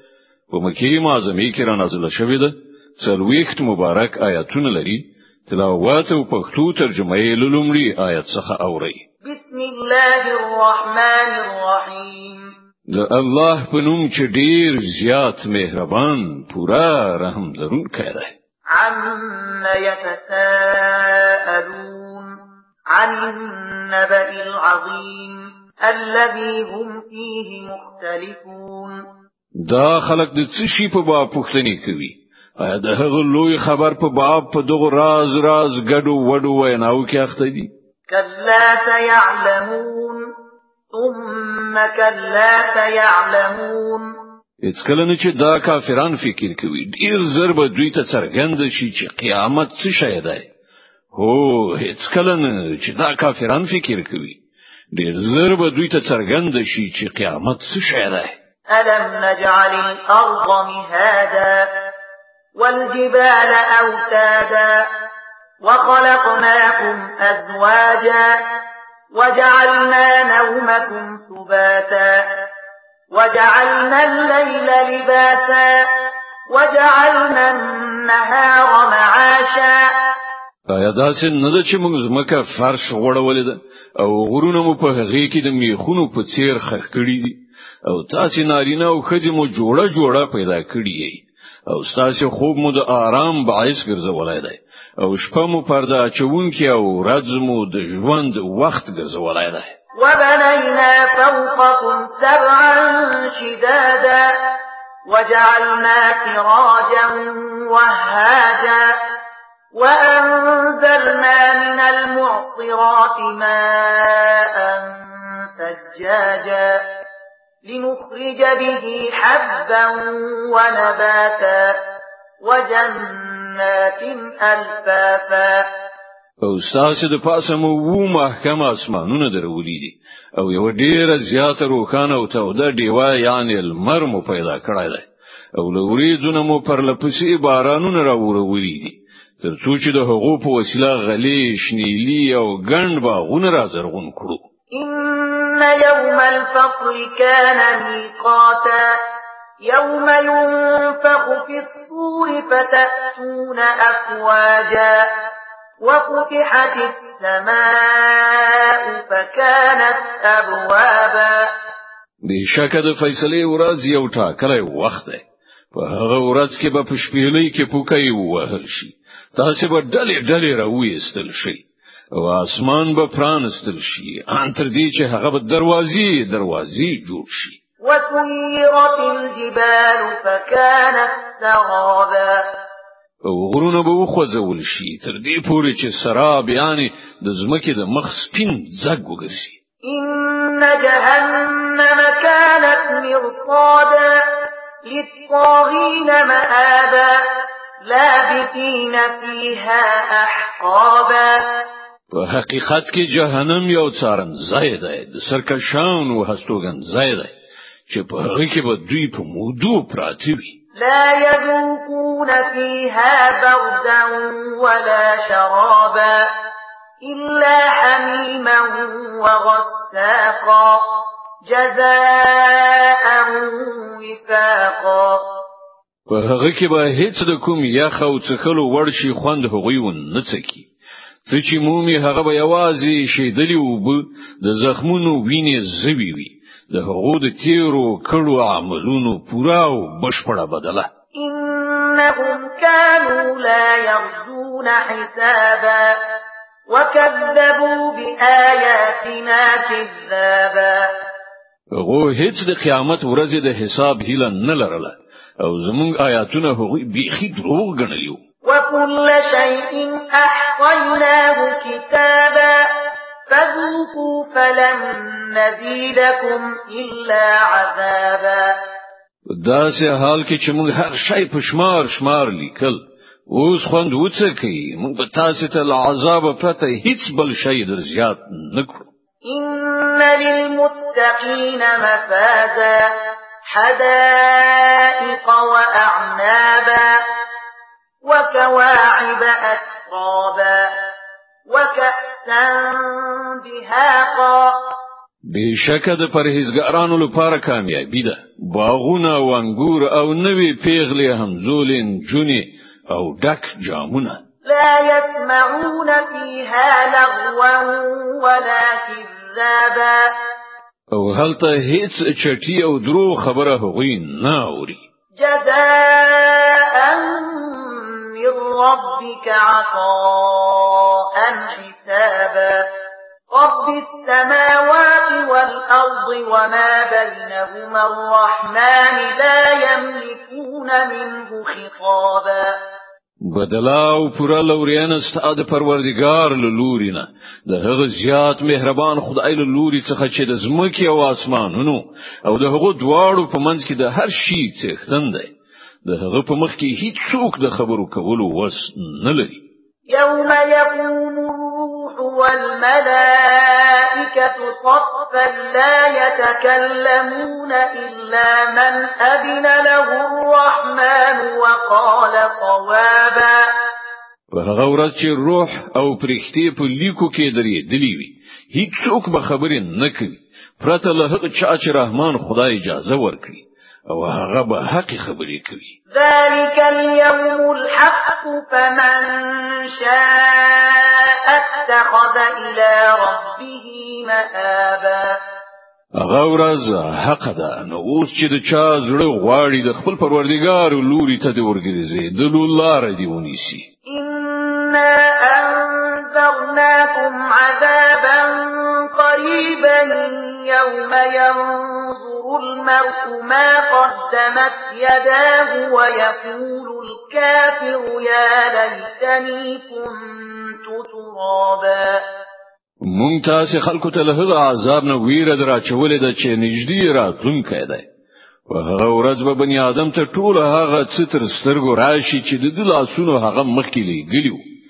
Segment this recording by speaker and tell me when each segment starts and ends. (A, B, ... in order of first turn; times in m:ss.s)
0:00.5-0:09.0 A
0:09.2-0:12.5 B
0:12.9-0:18.3 A
0:18.8-0:22.4 B
0:22.9-0:29.0 B
0:29.6-0:37.7 A
0:38.1-0:40.2 B
0:40.9-0:44.1 B
0:44.6-0:50.5 A
0:51.1-0:54.4 A
0:54.9-0:58.3 A
0:58.7-1:01.9 B
1:02.6-1:04.9 B
1:05.6-1:08.6 B
1:09.1-1:12.4 B
1:13.1-1:15.9 B
1:16.5-1:19.9 B
1:20.7-1:39.8 A
1:40.0-1:44.6 B
1:45.1-1:49.0 B
1:49.7-1:56.9 B
1:57.6-2:01.8 B
2:02.4-2:05.7 B
2:06.4-2:24.4 A
2:24.8-2:29.0 B
2:29.6-2:35.1 B
2:35.8-2:41.5 B
2:42.2-2:57.6 A
2:57.8-3:02.5 B
3:03.2-3:09.6 A
3:09.9-3:17.3 B
3:17.9-3:21.7 B
3:22.1-3:27.3 A
3:27.9-3:30.6 A
3:30.8-3:36.3 B
3:37.0-3:45.2 B
3:46.1-3:50.7 A
3:51.3-4:00.9 A
4:01.2-4:06.0 B
4:06.7-4:10.9 B
4:11.7-4:18.2 A
4:18.4-4:22.7 B
4:23.3-4:28.6 B
4:29.3-4:38.9 A
4:39.3-4:42.9 B
4:43.5-4:47.0 B
4:48.0-4:50.7 B
4:51.5-4:54.6 B
4:55.2-5:04.2 A
5:04.5-5:10.1 B
5:10.9-5:14.8 A
5:15.2-5:22.7 B
5:23.3-5:32.6 B
5:33.2-5:45.3 A
5:45.8-5:49.4 A
5:49.9-6:03.5 B
6:04.3-6:15.7 A
6:16.0-6:25.2 B
6:26.0-6:33.7 A
6:33.9-6:52.0 B
6:52.8-6:57.8 A
6:58.5-7:04.4 A